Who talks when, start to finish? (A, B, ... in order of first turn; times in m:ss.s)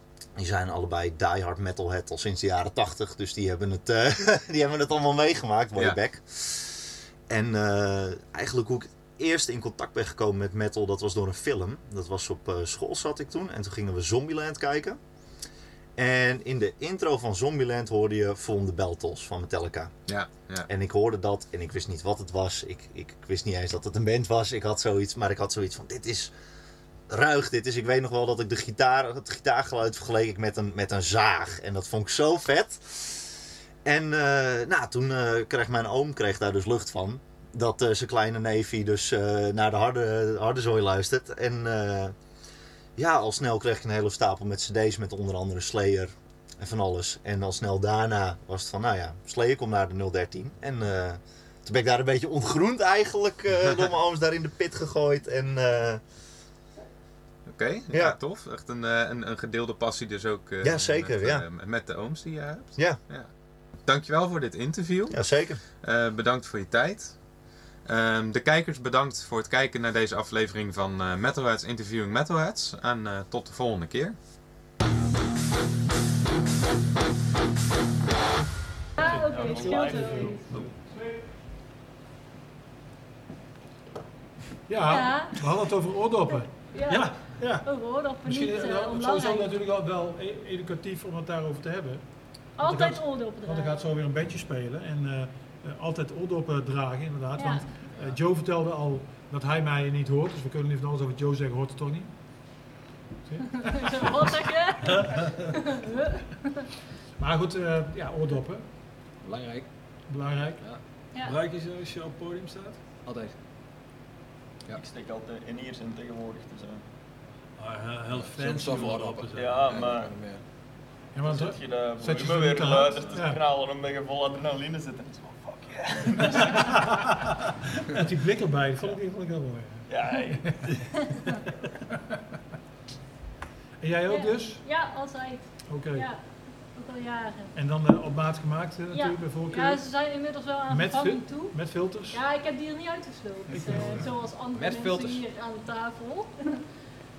0:00.4-0:15.0 A
0:05.8-0:06.0 B
0:16.0-0:26.3 A
0:20.1-0:20.7 B
0:27.1-0:42.2 A
0:43.0-0:56.0 A
0:57.5-1:14.2 B
0:57.9-0:58.2 A
1:00.6-1:02.0 A
1:02.8-1:03.1 A
1:05.1-1:05.6 A
1:19.0-1:20.7 C
1:19.0-1:21.2 D
1:19.0-1:20.8 E
1:24.7-1:42.6 D
1:24.8-1:25.5 C
1:26.3-1:29.6 C
1:26.9-1:27.2 F
1:32.6-1:33.9 C
1:37.3-1:37.7 C
1:43.2-1:44.2 D
1:43.6-1:46.5 C
1:44.9-1:45.4 F
1:47.2-1:48.6 D
1:49.2-1:50.1 G
1:50.1-1:50.7 D
1:51.2-1:52.8 F
1:53.0-1:53.4 G
1:54.7-1:56.8 E
1:57.6-1:59.7 F
1:58.1-2:00.4 G
1:59.3-2:00.4 E
2:01.1-2:03.4 D
2:01.2-2:06.6 E
2:07.9-2:10.6 D
2:09.9-2:10.7 E
2:13.8-2:14.7 D
2:14.1-2:17.6 C
2:15.7-2:16.2 D
2:17.6-2:22.2 D
2:18.9-2:26.6 C
2:23.5-2:24.0 D
2:23.5-2:24.1 F
2:24.5-2:25.2 G